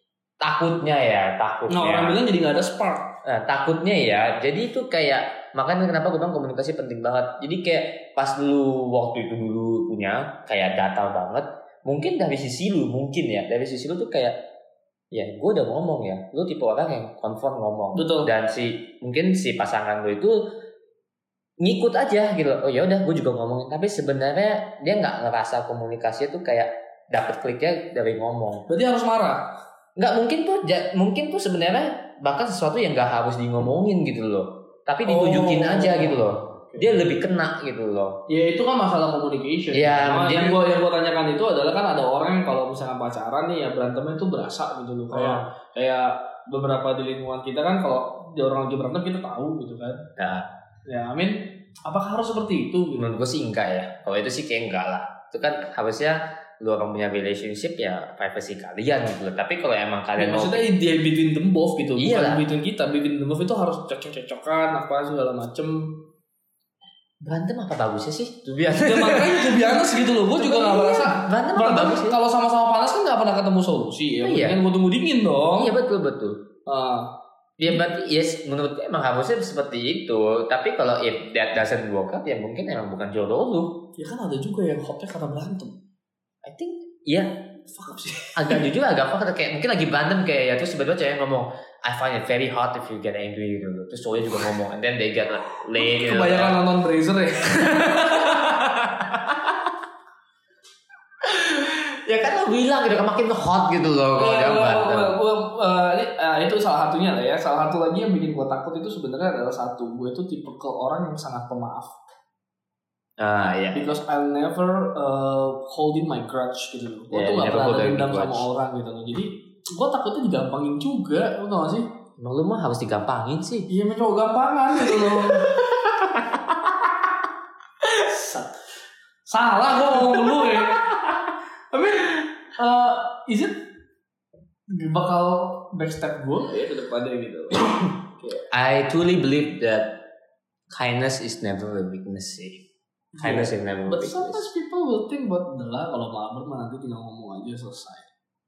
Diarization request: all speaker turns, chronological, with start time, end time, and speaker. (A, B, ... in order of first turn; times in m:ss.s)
0:00.4-0:02.2 A
0:01.7-0:03.1 B
0:03.2-0:14.4 A
0:15.1-0:20.4 A
0:17.9-0:18.3 B
0:21.6-0:28.6 A
0:28.7-0:29.5 B
0:30.0-0:38.2 A
0:35.0-0:37.1 B
0:38.3-0:50.0 B
0:39.7-0:40.6 A
0:45.1-0:45.4 A
0:50.2-0:50.5 A
0:50.9-0:53.1 B
0:53.0-1:00.6 A
1:00.2-1:06.0 B
1:02.0-1:02.4 A
1:07.2-1:12.2 A
1:08.8-1:15.7 B
1:14.2-1:14.6 A
1:15.6-1:16.4 A
1:16.7-1:17.1 B
1:17.6-1:23.8 A
1:23.9-1:25.8 B
1:26.4-1:27.4 A
1:27.7-1:28.6 B
1:28.3-1:36.6 A
1:35.7-1:38.4 B
1:37.5-1:39.6 A
1:41.2-1:45.2 A
1:44.2-1:52.0 B
1:53.2-1:53.9 A
1:53.7-2:01.8 B
1:57.1-1:58.5 A
2:02.2-2:03.7 A
2:03.7-2:05.5 B
2:04.8-2:07.0 A
2:07.9-2:08.6 B
2:09.2-2:10.9 B
2:09.9-2:11.1 A
2:11.7-2:13.6 B
2:14.7-2:18.5 B
2:18.5-2:20.0 A
2:20.7-2:22.6 A
2:23.1-2:28.1 B
2:23.2-2:24.4 A